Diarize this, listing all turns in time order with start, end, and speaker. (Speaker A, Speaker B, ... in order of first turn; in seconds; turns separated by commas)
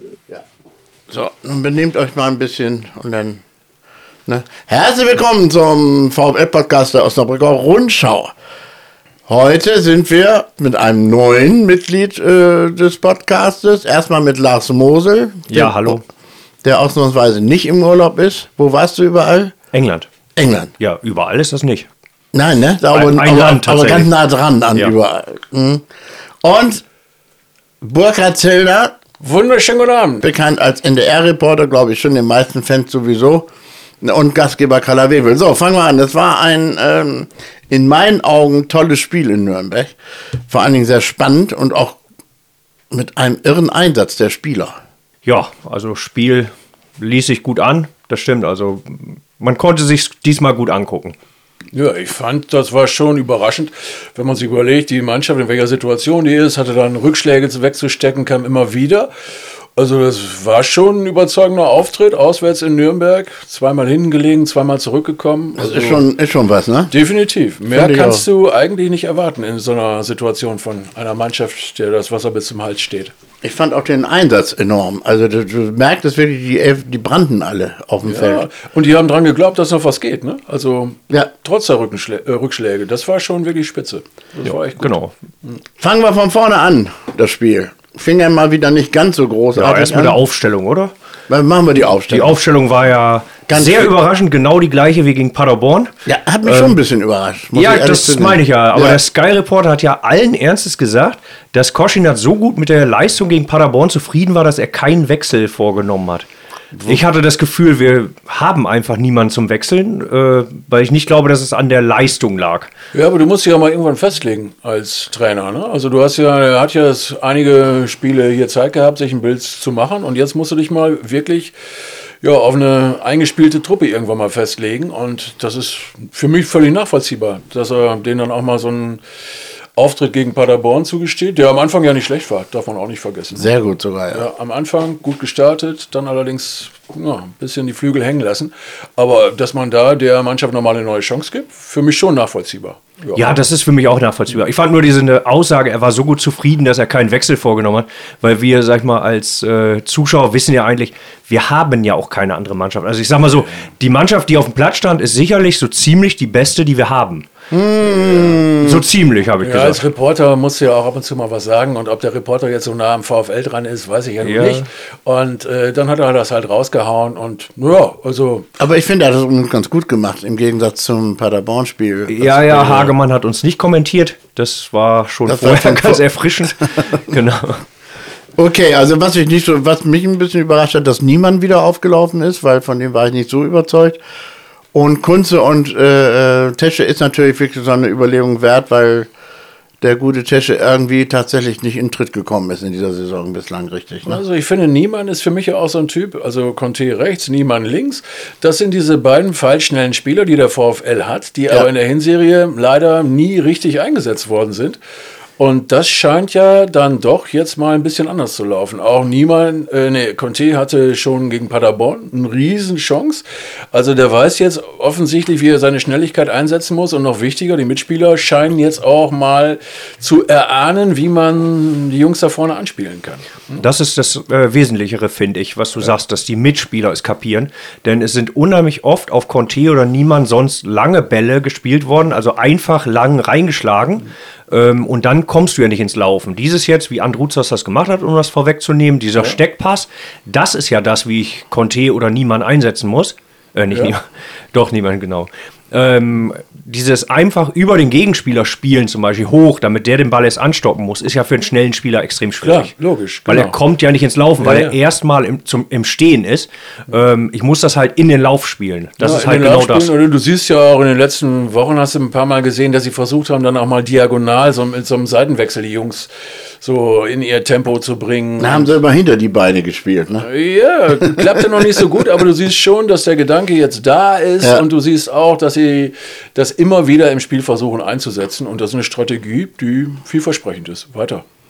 Speaker A: 1.1-3.4, Speaker A: 4.3-8.3, Speaker A: 9.3-16.0, Speaker B: 15.5-16.0, Speaker A: 16.6-19.5, Speaker B: 19.7-20.1, Speaker A: 20.4-20.7, Speaker B: 20.8-21.9, Speaker A: 22.3-25.8, Speaker B: 22.9-24.1, Speaker A: 26.4-26.8, Speaker A: 27.8-28.9, Speaker C: 29.2-30.2, Speaker A: 30.2-33.5, Speaker A: 34.0-39.9, Speaker A: 40.5-42.0, Speaker A: 42.9-44.8, Speaker B: 45.2-51.2, Speaker C: 51.7-59.1, Speaker C: 59.8-66.0, Speaker A: 65.6-66.9, Speaker C: 66.9-73.1, Speaker A: 67.7-68.2, Speaker A: 73.4-78.5, Speaker C: 78.0-84.9, Speaker B: 84.5-85.1, Speaker A: 85.8-90.2, Speaker B: 89.5-90.9, Speaker A: 91.3-92.4, Speaker B: 92.1-96.8, Speaker A: 93.5-93.9, Speaker A: 96.1-99.0, Speaker B: 97.5-106.3, Speaker B: 106.9-112.7, Speaker C: 112.9-121.5, Speaker C: 122.2-129.0, Speaker C: 129.8-133.5, Speaker A: 133.3-134.2, Speaker C: 134.1-143.3, Speaker B: 143.2-157.3, Speaker A: 157.5-158.8, Speaker C: 157.9-158.7, Speaker B: 158.6-159.8, Speaker C: 159.4-168.5, Speaker B: 164.2-164.7, Speaker A: 168.6-172.9, Speaker B: 172.1-177.6, Speaker A: 175.3-176.2, Speaker A: 176.7-177.1, Speaker A: 178.4-184.0, Speaker A: 184.7-189.1, Speaker A: 189.8-194.2, Speaker C: 194.1-204.8, Speaker C: 205.4-223.6, Speaker B: 223.6-252.7, Speaker C: 252.4-253.6, Speaker B: 253.3-259.9, Speaker C: 254.4-254.8, Speaker C: 259.0-266.1, Speaker C: 266.6-268.7, Speaker A: 268.4-270.3, Speaker C: 270.2-281.2, Speaker A: 271.0-271.8